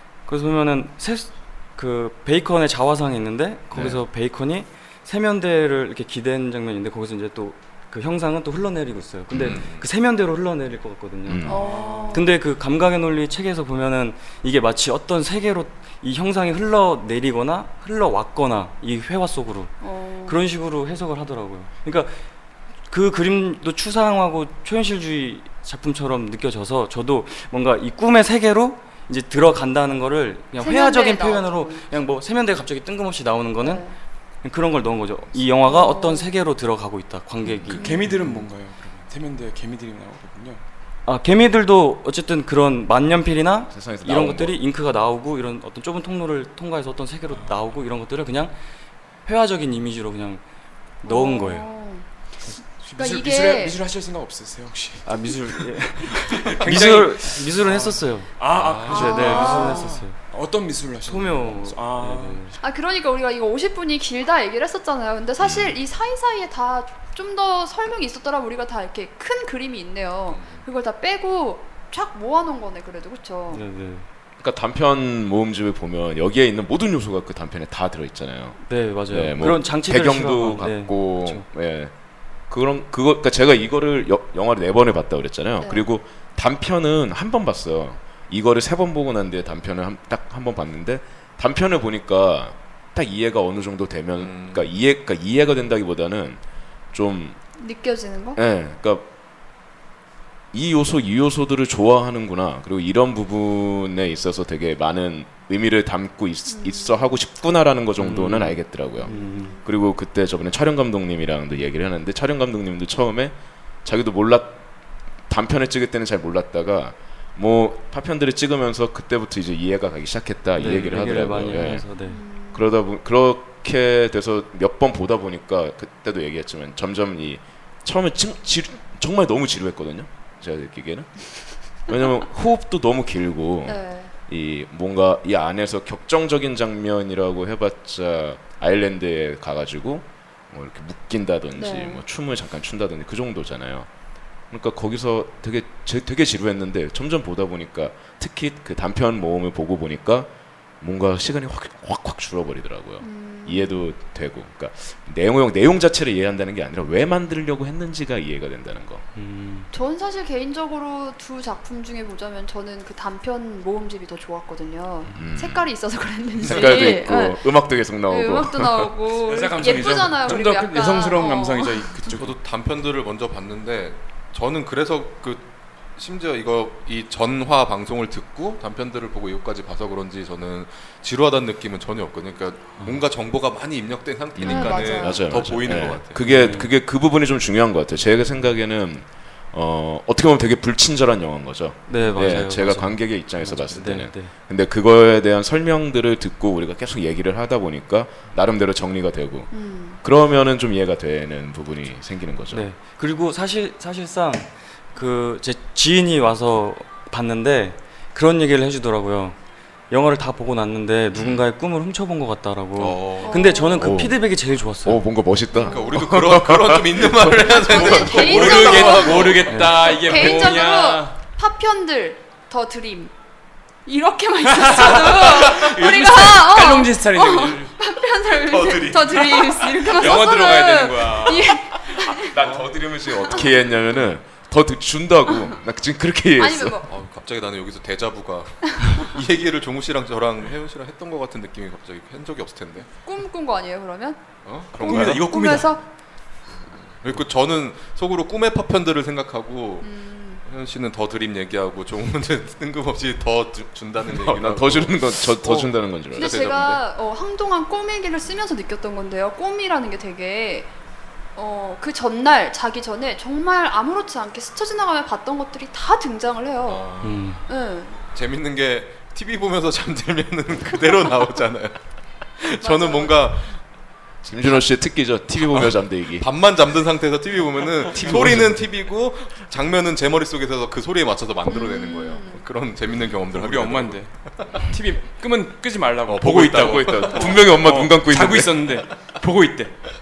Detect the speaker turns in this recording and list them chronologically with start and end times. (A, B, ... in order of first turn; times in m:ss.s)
0:00.2-0:11.6 A
0:03.7-0:04.0 B
0:09.3-0:09.6 B
0:09.4-0:09.8 C
0:11.2-0:11.7 B
0:11.4-0:12.3 D
0:11.4-0:12.3 E
0:12.1-0:22.2 A
0:19.8-0:20.4 E
0:22.9-0:33.8 A
0:30.6-0:31.9 E
0:33.6-0:33.9 E
0:34.4-0:38.1 A
0:35.6-0:36.3 E
0:37.6-0:40.6 D
0:37.8-0:38.1 E
0:41.0-0:48.5 A
0:43.7-0:44.6 B
0:47.3-0:47.6 D
0:49.2-0:50.4 A
0:51.0-0:51.7 A
0:51.0-0:52.0 E
0:52.7-1:02.5 D
0:53.0-0:53.8 E
0:55.0-1:00.2 A
0:58.5-0:59.1 C
0:58.9-1:00.0 E
1:01.0-1:02.5 A
1:02.6-1:13.6 E
1:05.4-1:05.8 B
1:10.3-1:10.6 C
1:13.5-1:14.0 A
1:14.4-1:21.9 B
1:18.7-1:21.4 A
1:22.5-1:36.4 B
1:25.6-1:25.9 E
1:34.2-1:34.7 C
1:36.9-1:37.4 B
1:37.6-1:38.4 E
1:38.4-1:39.0 B
1:40.5-1:54.6 B
1:46.5-1:47.0 E
1:48.0-1:49.6 A
1:49.0-1:49.6 E
1:55.3-2:01.8 B
2:00.6-2:02.2 A
2:02.0-2:02.7 E
2:02.5-2:23.9 B
2:13.6-2:14.1 E
2:21.6-2:22.0 E
2:24.5-2:39.0 B
2:33.0-2:33.8 E
2:39.1-2:39.7 A
2:39.7-2:47.5 E
2:45.1-2:45.7 B
2:46.4-2:48.9 B
2:46.4-2:46.8 C
2:48.0-2:52.0 E
2:49.2-2:52.4 D
2:52.1-3:06.3 C
3:04.4-3:19.5 B
3:04.4-3:05.3 E
3:06.2-3:06.7 A
3:11.9-3:14.3 A
3:12.0-3:12.3 E
3:19.5-3:20.0 E
3:20.0-3:22.6 B
3:22.5-3:29.4 A
3:29.9-3:35.0 A
3:31.1-3:31.4 B
3:32.8-3:33.5 C
3:33.2-3:33.9 E
3:33.8-3:34.2 B
3:34.8-3:38.3 B
3:35.5-3:35.9 E
3:35.6-3:39.5 C
3:37.5-3:43.1 E
3:38.1-3:41.2 D
3:39.5-3:40.0 A
3:43.8-3:52.5 E
3:44.5-3:47.8 D
3:48.6-3:49.5 C
3:49.8-3:51.6 D
3:52.0-3:56.8 B
3:53.1-3:53.5 E
3:56.4-3:56.9 E
3:56.9-4:02.9 C
4:03.0-4:04.2 E
4:04.4-4:05.3 C
4:04.8-4:05.8 D
4:04.8-4:05.8 E
4:06.9-4:16.8 C
4:09.8-4:10.4 E
4:14.0-4:16.4 B
4:16.1-4:20.7 E
4:21.4-4:26.8 E
4:26.6-4:27.3 C
4:27.0-4:27.4 A
4:27.5-4:28.0 E
4:28.0-4:31.8 C
4:32.4-4:33.6 C
4:32.6-4:33.2 E
4:34.2-4:36.3 B
4:35.4-4:44.6 C
4:37.9-4:38.6 D
4:38.0-4:38.4 B
4:41.5-4:42.4 E
4:43.3-4:49.8 D
4:46.1-4:47.5 C
4:46.6-4:48.7 B